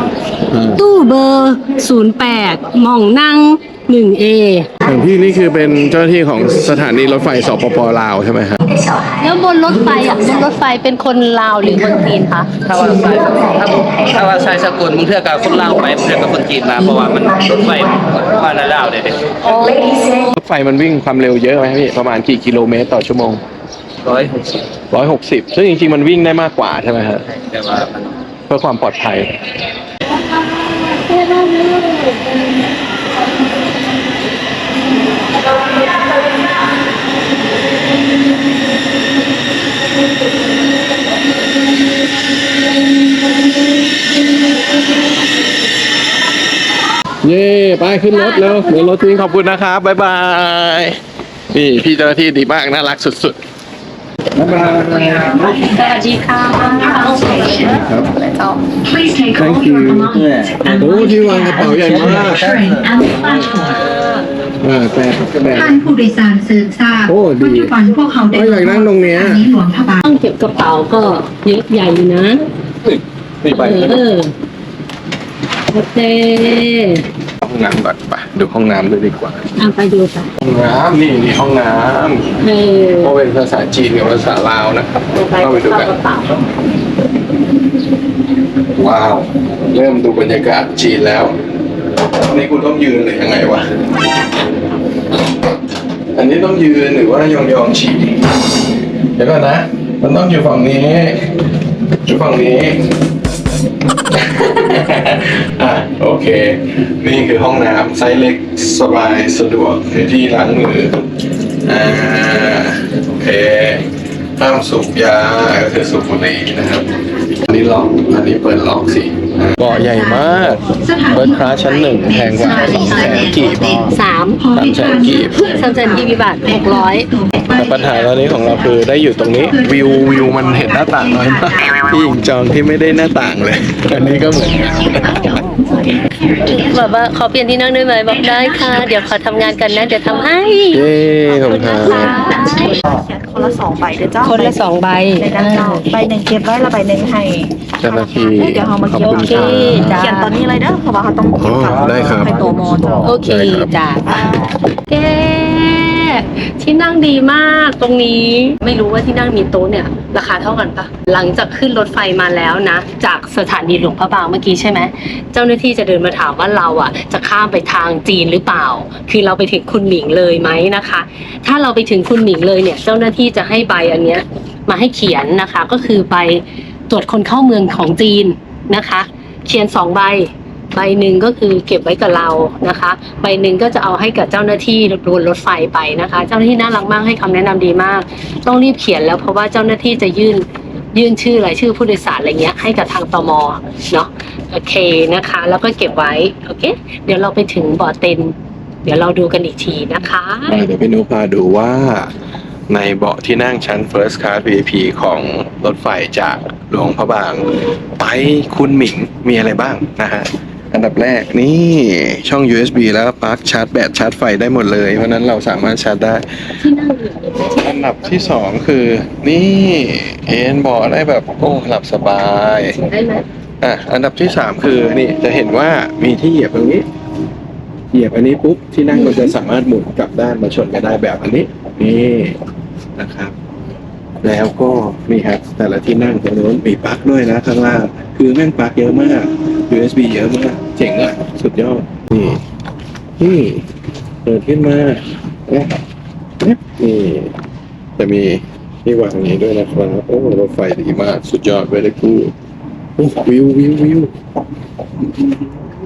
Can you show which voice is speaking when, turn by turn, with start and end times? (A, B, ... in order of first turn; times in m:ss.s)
0:00.5-0:00.8 A
0:00.8-0:04.7 B
0:04.8-0:08.6 A
0:08.7-0:10.5 C
0:09.2-0:12.5 B
0:11.6-0:14.3 C
0:12.7-0:19.2 D
0:16.8-0:18.1 C
0:19.5-0:19.8 B
0:19.6-0:20.3 C
0:20.4-0:23.4 A
0:24.0-0:24.6 D
0:24.9-0:27.2 A
0:27.3-0:27.9 D
0:28.5-0:29.3 A
0:30.9-0:32.2 B
0:47.2-0:51.0 A
0:48.1-0:48.7 B
0:51.5-0:53.4 A
0:54.4-0:55.6 A
0:55.0-0:57.9 C
0:55.7-0:57.6 B
0:57.7-0:58.1 A
0:58.2-0:58.5 B
0:58.8-1:03.9 C
0:59.4-1:00.2 A
1:00.1-1:01.0 D
1:00.8-1:02.5 A
1:01.6-1:03.0 D
1:04.6-1:05.8 A
1:05.5-1:10.0 C
1:07.1-1:07.7 A
1:08.3-1:09.5 A
1:10.0-1:12.4 B
1:13.4-1:14.0 A
1:13.5-1:14.3 B
1:15.7-1:17.0 B
1:17.4-1:19.5 A
1:19.6-1:20.3 B
1:20.4-1:22.4 A
1:22.4-1:23.1 B
1:23.0-1:25.9 A
1:25.1-1:26.4 B
1:28.8-1:31.4 A
1:32.1-1:33.7 A
1:36.1-1:38.2 A
1:39.2-1:41.3 A
1:42.0-1:43.0 A
1:44.0-1:51.1 A
1:51.6-1:53.9 A
1:54.4-2:03.9 A
1:59.6-2:08.8 C
2:02.5-2:03.2 B
2:03.9-2:04.4 B
2:04.6-2:05.6 A
2:05.4-2:07.1 B
2:07.5-2:15.4 A
2:09.3-2:11.9 C
2:14.6-2:17.0 C
2:16.4-2:20.8 B
2:18.1-2:20.4 C
2:20.7-2:22.1 A
2:21.3-2:33.2 E
2:21.8-2:22.8 B
2:24.2-2:25.9 B
2:27.8-2:30.1 A
2:29.0-2:30.4 B
2:31.4-2:33.7 A
2:33.0-2:34.3 B
2:34.0-2:34.6 E
2:34.9-3:18.3 B
3:18.8-3:20.6 B
3:20.5-3:22.1 A
3:22.7-3:36.3 A
3:36.6-3:38.0 B
3:37.6-3:42.8 A
3:42.8-3:43.2 B
3:43.6-3:46.8 A
3:47.9-3:52.4 A
3:49.0-3:49.3 B
3:53.0-3:53.3 A
3:54.2-4:02.4 A
4:03.2-4:03.7 A
4:04.2-4:05.8 A
4:06.4-4:07.3 A
4:08.0-4:12.3 A
4:13.0-4:14.1 A